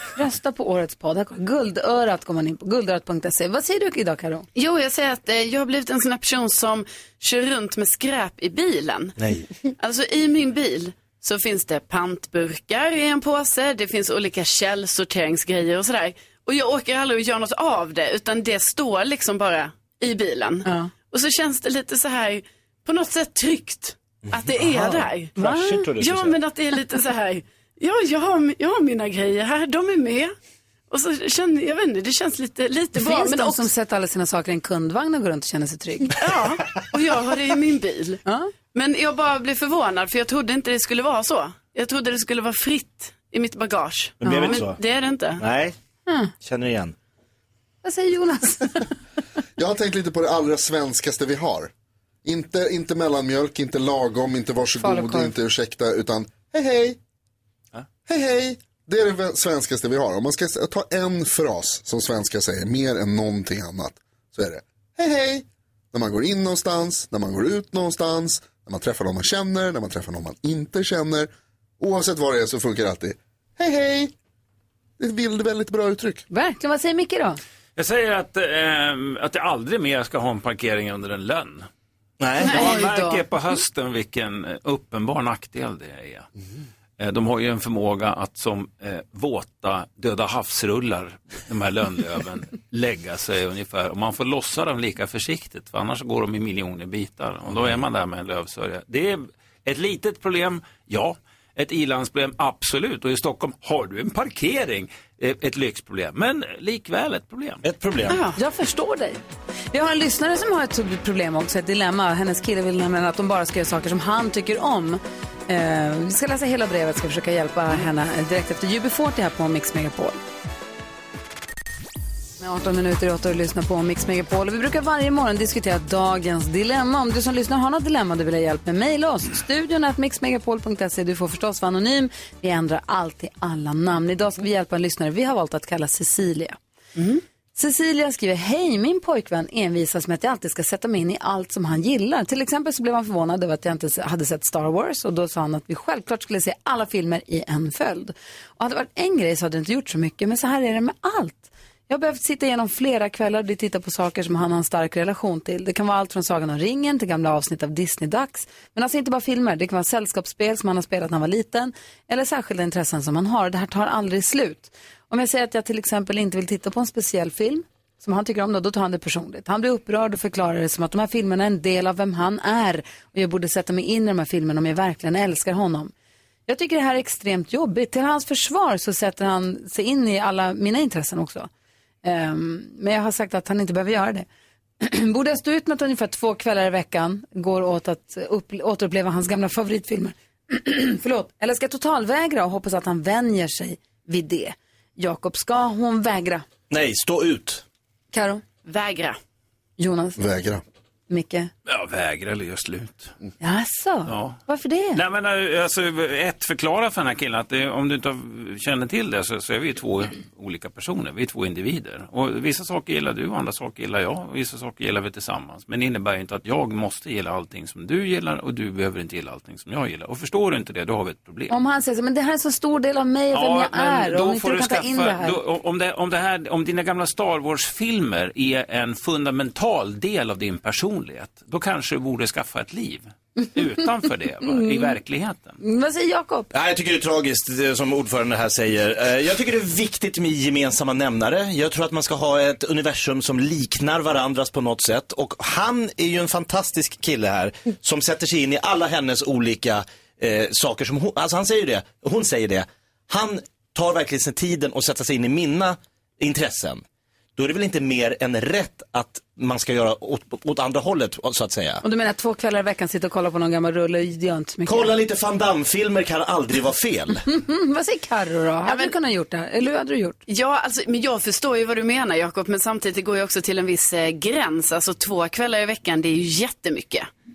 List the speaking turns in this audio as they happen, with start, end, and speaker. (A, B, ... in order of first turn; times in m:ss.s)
0:00.2-0:04.5 A
0:04.6-0:09.2 B
0:09.2-0:09.4 C
0:09.8-0:25.4 B
0:20.6-0:20.9 A
0:24.2-0:26.4 C
0:25.4-0:25.9 A
0:26.0-0:30.3 B
0:30.9-0:33.7 B
0:33.0-0:36.1 A
0:36.2-0:38.2 B
0:38.7-0:45.4 B
0:44.2-0:44.8 C
0:44.2-0:44.6 A
0:45.4-0:45.8 C
0:46.4-0:47.0 C
0:47.8-0:48.8 A
0:49.6-0:51.7 D
0:52.2-0:57.0 D
0:54.8-0:55.3 A
0:58.1-1:14.1 D
1:15.0-1:16.2 D
1:16.3-1:17.4 A
1:17.8-1:21.7 E
1:22.2-1:22.7 C
1:22.4-1:26.3 E
1:22.5-1:23.2 A
1:27.0-1:47.6 E
1:47.6-1:48.2 C
1:48.1-1:48.4 B
1:48.4-1:49.2 A
1:49.7-2:00.2 A
2:02.4-2:16.6 A
2:17.0-2:17.2 B
2:17.6-2:55.9 A
2:56.5-3:01.5 A
3:02.0-3:04.3 A
3:04.8-3:16.4 A
3:16.7-3:17.6 C
3:18.1-3:18.4 A
3:18.6-3:19.2 B
3:19.8-3:20.2 A
3:20.2-3:20.6 D
3:21.1-3:21.5 A
3:21.7-3:23.1 E
3:23.4-3:25.0 A
3:24.1-3:24.4 E
3:24.9-3:41.5 E
3:41.5-3:45.4 A
3:43.3-3:55.6 E
3:54.4-3:55.0 A
3:55.6-3:56.5 A
3:56.5-4:16.8 C
4:17.4-4:21.8 C
4:21.8-4:24.9 A
4:24.6-4:27.2 C
4:27.3-4:30.2 A
4:28.7-4:28.9 B
4:30.3-4:37.1 B